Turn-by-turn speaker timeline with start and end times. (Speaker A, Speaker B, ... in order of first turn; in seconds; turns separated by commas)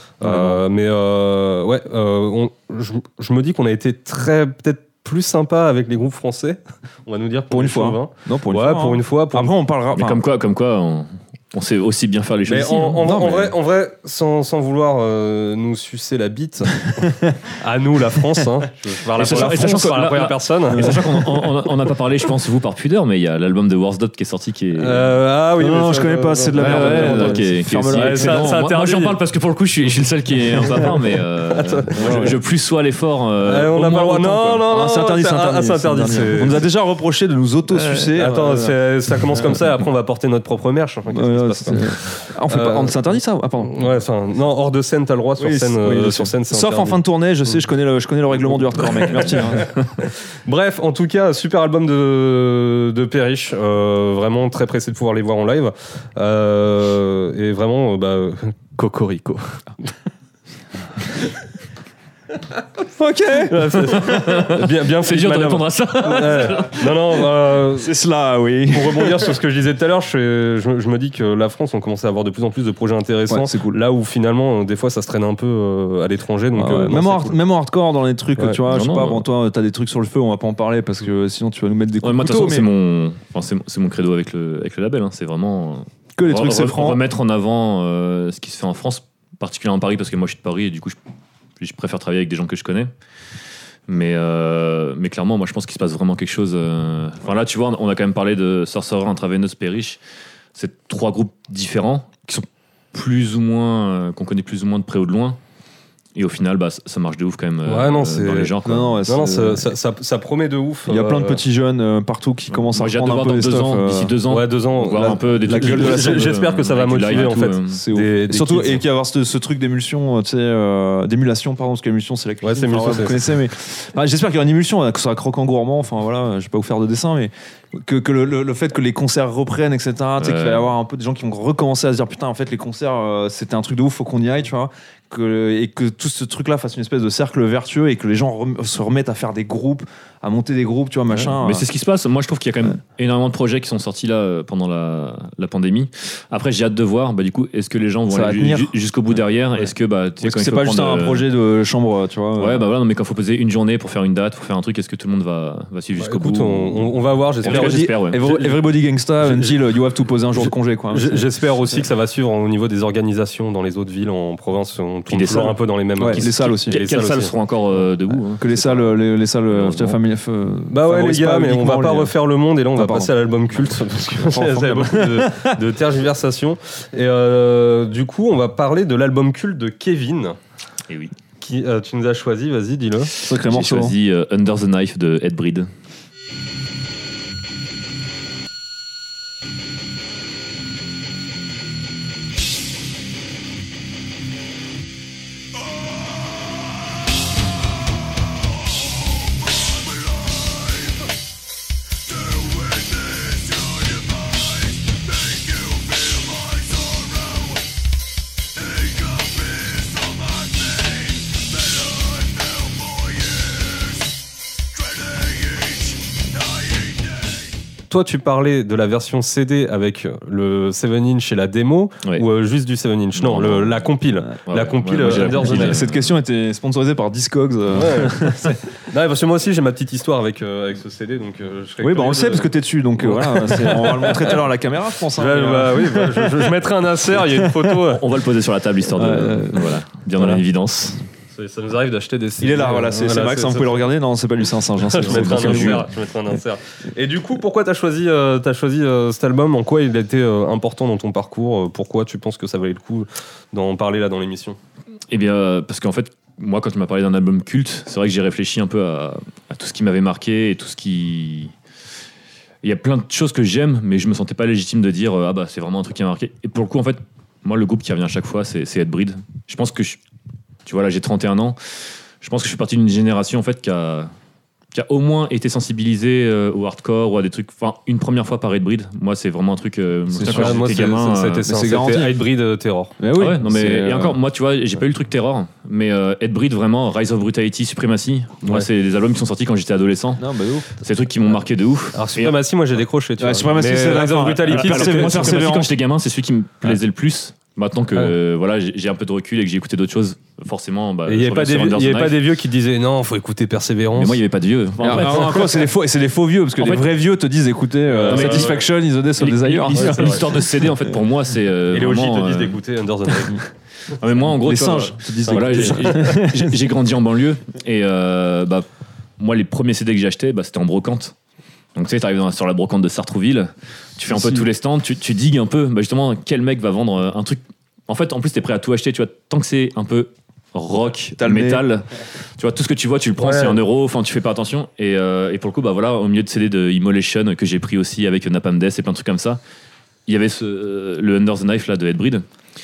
Speaker A: 0.2-9.5, Speaker B: 0.2-0.6, Speaker B: 7.5-10.2, Speaker C: 9.9-13.3, Speaker A: 12.5-21.2, Speaker B: 12.9-13.5, Speaker C: 19.2-25.2, Speaker B: 19.2-19.9, Speaker B: 20.8-21.0, Speaker A: 24.8-29.2, Speaker B: 25.6-28.5, Speaker C: 26.6-34.6, Speaker A: 31.5-32.3, Speaker B: 31.9-32.4, Speaker A: 33.5-36.7, Speaker B: 33.8-38.8, Speaker A: 37.7-43.0, Speaker B: 41.1-43.8, Speaker A: 43.6-47.0, Speaker B: 45.4-49.8, Speaker A: 48.8-59.6, Speaker B: 62.8-64.3, Speaker A: 63.3-67.9, Speaker C: 64.0-66.8, Speaker B: 67.7-69.4, Speaker A: 68.7-77.4, Speaker B: 73.3-73.8, Speaker B: 76.5-82.7, Speaker C: 78.7-79.2, Speaker C: 82.0-91.0, Speaker B: 86.2-87.0, Speaker C: 91.6-92.9, Speaker C: 93.9-100.0, Speaker C: 100.5-105.4, Speaker C: 106.2-109.1, Speaker A: 107.7-108.5, Speaker B: 108.6-109.7, Speaker A: 109.1-111.4, Speaker B: 110.9-114.2, Speaker C: 112.5-117.8, Speaker A: 114.3-118.8, Speaker B: 114.9-116.4, Speaker B: 117.1-141.7, Speaker A: 122.4-123.2, Speaker C: 130.2-130.7, Speaker C: 141.1-151.3, Speaker B: 148.1-148.7, Speaker B: 150.2-152.7, Speaker C: 152.4-156.9, Speaker A: 156.0-158.7, Speaker C: 157.4-158.2, Speaker B: 157.4-161.3, Speaker A: 159.2-159.6, Speaker A: 160.3-167.4, Speaker C: 165.1-169.0, Speaker B: 166.0-166.8, Speaker B: 168.4-172.1, Speaker C: 169.5-170.0, Speaker A: 170.7-180.4, Speaker B: 172.8-173.1, Speaker B: 174.2-175.6, Speaker A: 181.4-183.1, Speaker B: 183.2-183.9, Speaker C: 183.3-185.7, Speaker A: 217.9-225.8, Speaker C: 223.2-223.9, Speaker C: 224.4-226.1, Speaker B: 225.1-228.6, Speaker A: 227.7-234.5, Speaker B: 231.8-236.6, Speaker A: 235.1-238.0, Speaker B: 237.2-237.8, Speaker C: 237.8-241.0, Speaker B: 238.9-240.4, Speaker A: 241.3-243.9, Speaker B: 242.4-245.9, Speaker A: 244.9-254.6, Speaker C: 245.1-245.8, Speaker C: 255.1-261.5, Speaker C: 262.6-270.0, Speaker C: 270.6-271.6, Speaker C: 272.2-274.1, Speaker C: 274.7-281.5, Speaker B: 280.1-280.6, Speaker A: 280.2-282.9, Speaker B: 281.5-282.2, Speaker B: 283.0-284.2, Speaker C: 283.2-292.4, Speaker B: 290.2-290.7, Speaker A: 291.9-295.5, Speaker B: 293.2-295.7, Speaker C: 294.5-302.2, Speaker A: 301.1-304.2, Speaker C: 304.0-305.6, Speaker B: 304.8-310.6, Speaker A: 305.0-305.4, Speaker C: 306.6-306.9, Speaker A: 307.9-308.7, Speaker C: 308.1-308.6, Speaker C: 309.2-312.6, Speaker A: 309.7-310.3, Speaker A: 311.7-313.4, Speaker C: 314.0-318.6, Speaker B: 314.3-316.5, Speaker A: 314.7-316.2, Speaker C: 319.2-321.1, Speaker C: 321.8-331.9, Speaker B: 324.1-324.5, Speaker B: 331.2-331.6, Speaker C: 332.4-339.4, Speaker A: 333.2-333.6, Speaker C: 340.1-342.2